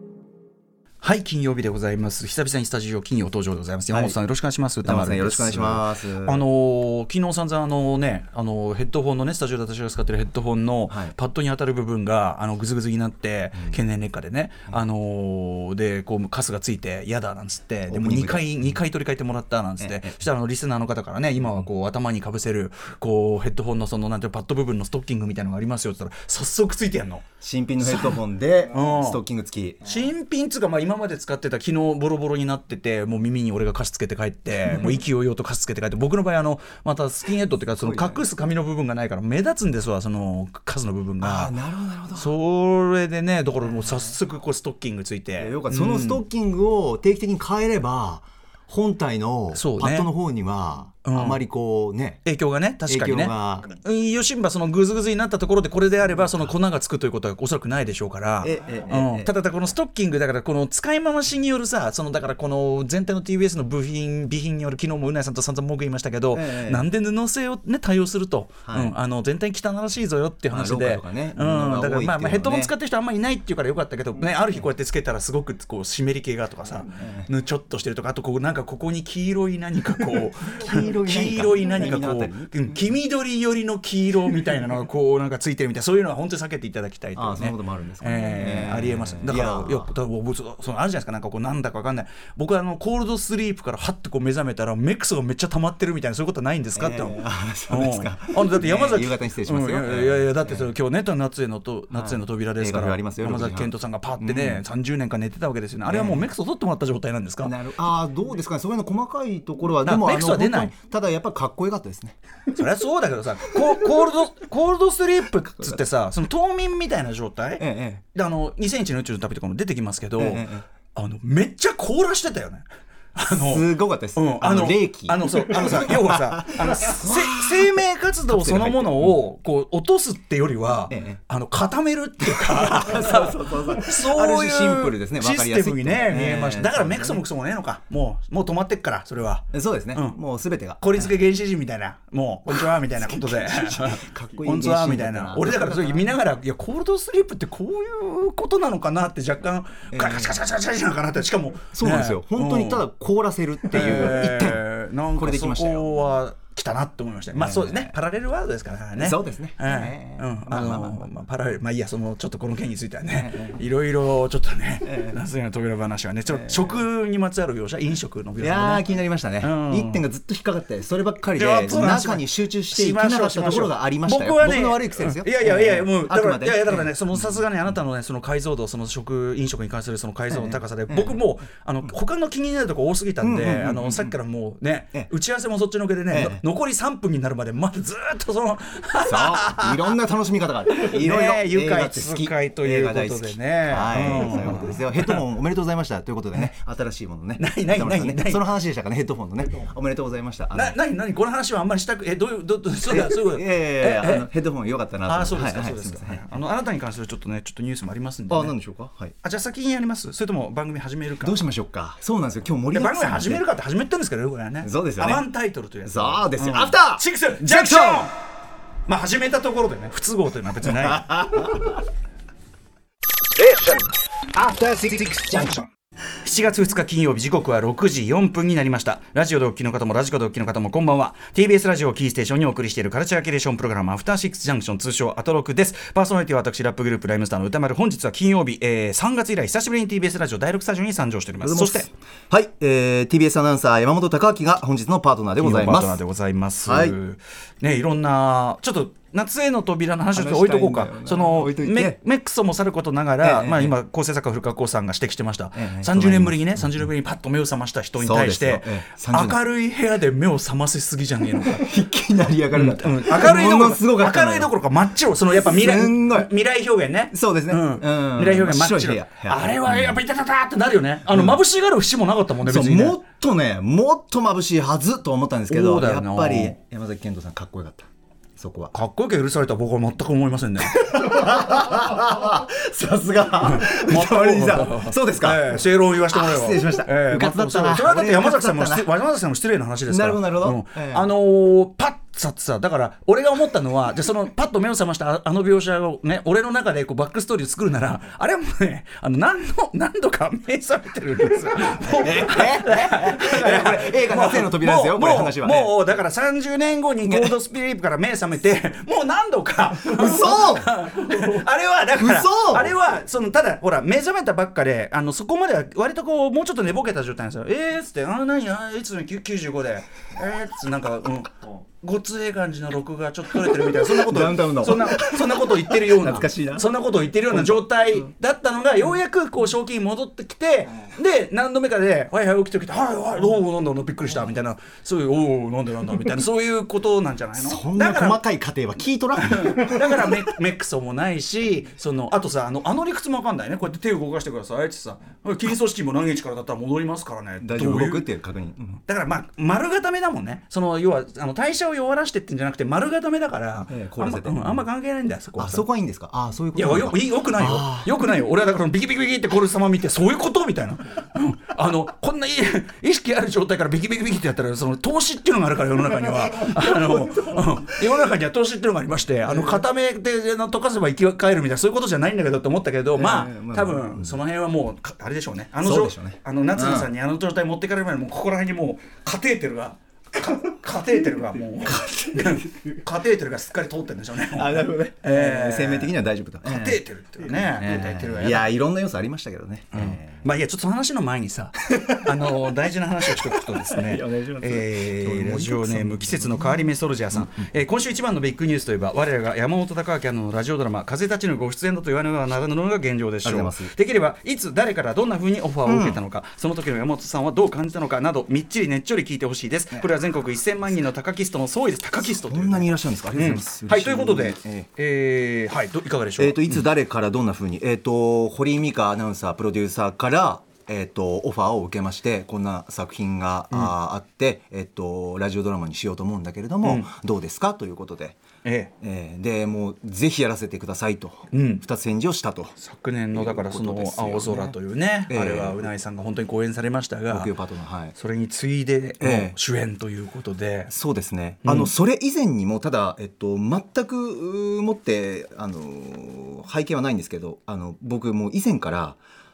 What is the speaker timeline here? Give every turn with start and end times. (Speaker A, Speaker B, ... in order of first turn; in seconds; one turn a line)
Speaker A: 1.0-27.2
Speaker B: 3.9-4.2
Speaker B: 4.8-6.4
Speaker B: 10.9-11.1
Speaker B: 17.9-18.8
Speaker B: 19.8-20.1
Speaker B: 21.4-21.6
Speaker B: 27.4-30.1
Speaker A: 27.8-29.2
Speaker A: 29.8-41.5
Speaker B: 37.7-38.2
Speaker B: 41.2-42.4
Speaker A: 42.1-46.2
Speaker B: 43.7-44.1
Speaker B: 45.4-52.2
Speaker A: 49.5-50.1
Speaker A: 51.0-51.4
Speaker A: 52.2-107.5
Speaker B: 52.9-53.7
Speaker B: 58.4-59.3
Speaker B: 66.3-66.9
Speaker B: 68.7-68.9
Speaker B: 70.5-72.7
Speaker B: 76.7-77.3
Speaker B: 80.5-82.5
Speaker B: 87.2-89.9
Speaker B: 96.7-100.7
Speaker B: 101.9-104.6
Speaker B: 105.8-106.3
Speaker B: 107.4-112.2
Speaker A: 109.8-110.7
Speaker A: 112.5-140.2
Speaker B: 115.6-115.8
Speaker B: 117.6-118.0
Speaker B: 120.2-120.7
Speaker B: 123.2-129.2
Speaker B: 130.9-131.2
Speaker B: 132.3-137.2
Speaker B: 139.5-141.2
Speaker A: 140.8-152.9
Speaker B: 142.5-146.1
Speaker B: 149.9-150.4
Speaker B: 151.7-156.0
Speaker A: 153.7-168.8
Speaker B: 157.3-157.9
Speaker B: 158.9-161.1
Speaker B: 163.1-163.6
Speaker B: 164.8-165.2
Speaker B: 166.3-166.8
Speaker B: 168.4-177.4
Speaker A: 169.4-170.0
Speaker A: 171.3-189.8
Speaker B: 180.3-181.2
Speaker B: 183.2-184.2
Speaker B: 186.1-186.4
Speaker B: 189.1-200.8
Speaker A: 190.7-195.2
Speaker A: 197.4-198.5
Speaker A: 200.5-204.3
Speaker B: 202.9-206.2
Speaker A: 205.0-208.5
Speaker B: 208.3-209.1
Speaker A: 209.2-211.4
Speaker B: 211.2-213.4
Speaker A: 212.7-218.1
Speaker B: 214.6-215.2
Speaker B: 215.8-218.1
Speaker A: 218.8-221.4
Speaker B: 220.6-221.8
Speaker B: 224.4-225.6
Speaker A: 226.2-241.9
Speaker B: 241.4-246.0
Speaker A: 245.4-261.7
Speaker B: 246.6-247.0
Speaker B: 250.1-252.0
Speaker B: 253.2-253.8
Speaker B: 255.5-256.8
Speaker B: 258.0-259.4
Speaker B: 261.4-264.5
Speaker A: 262.5-273.0
Speaker B: 265.4-266.3
Speaker B: 267.1-270.0
Speaker B: 271.1-271.4
Speaker B: 272.4-278.7
Speaker A: 275.5-276.6
Speaker A: 278.7-280.8
Speaker B: 280.6-288.9
Speaker A: 283.4-338.2
Speaker B: 289.9-291.1
Speaker B: 302.0-305.8
Speaker B: 307.0-307.3
Speaker B: 309.9-311.0
Speaker B: 312.0-312.8
Speaker B: 323.4-328.1
Speaker B: 337.3-340.2
Speaker A: 339.2-348.1
Speaker B: 347.4-348.8
Speaker A: 348.9-355.7
Speaker B: 353.7-354.6
Speaker B: 355.4-357.9
Speaker A: 356.5-385.9
Speaker B: 366.6-367.4
Speaker B: 369.2-369.6
Speaker B: 372.9-374.2
Speaker B: 375.6-376.9
Speaker B: 381.6-382.6
Speaker B: 384.3-386.8
Speaker A: 386.4-388.5
Speaker B: 387.5-390.3
Speaker A: 389.7-416.6
Speaker B: 391.7-392.5
Speaker B: 393.0-397.4
Speaker B: 403.2-403.7
Speaker B: 405.6-406.0
Speaker B: 412.0-414.7
Speaker B: 416.2-428.2
Speaker A: 426.6-426.9
Speaker A: 428.4-428.7
Speaker B: 428.8-432.6
Speaker A: 431.3-431.6
Speaker A: 432.6-437.3
Speaker B: 433.1-434.6
Speaker B: 435.1-435.7
Speaker B: 437.1-437.9
Speaker A: 437.9-440.7
Speaker B: 439.0-439.4
Speaker B: 440.7-449.0
Speaker A: 441.4-441.7